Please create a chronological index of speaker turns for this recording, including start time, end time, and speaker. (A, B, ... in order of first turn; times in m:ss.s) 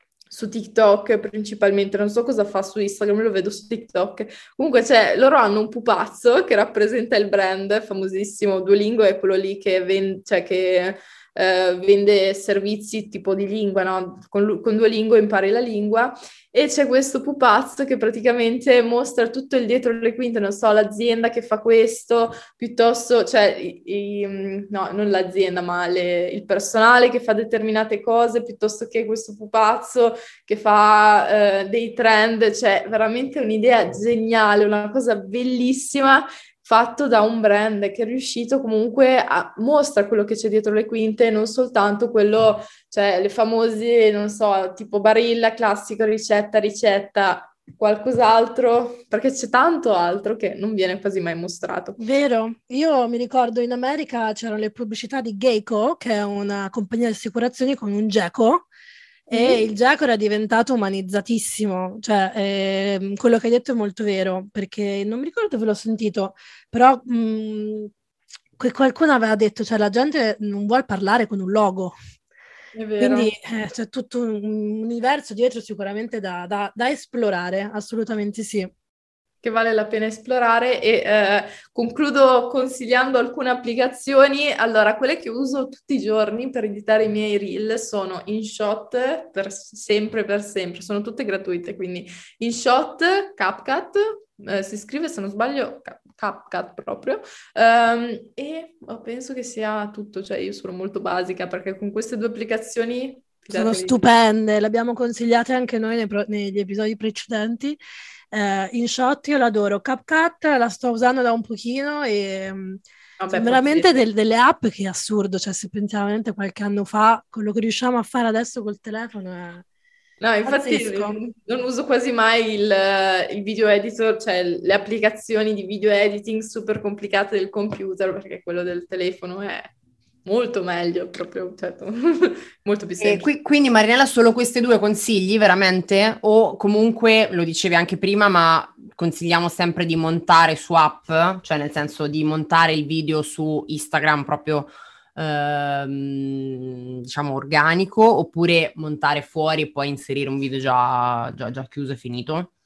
0:00.3-0:52.0 A
0:52.0-0:58.7 B
0:59.3-1:07.9 B
0:59.3-0:59.6 A
1:08.6-1:12.0 B
1:12.7-1:13.3 A
1:13.0-1:18.7 B
1:19.4-1:44.0 A
1:43.5-1:47.8 B
1:48.3-1:59.6 B
1:53.2-1:53.9 A
2:00.2-2:09.7 A
2:00.4-2:01.2 B
2:10.2-2:13.3 A
2:13.0-2:32.5 C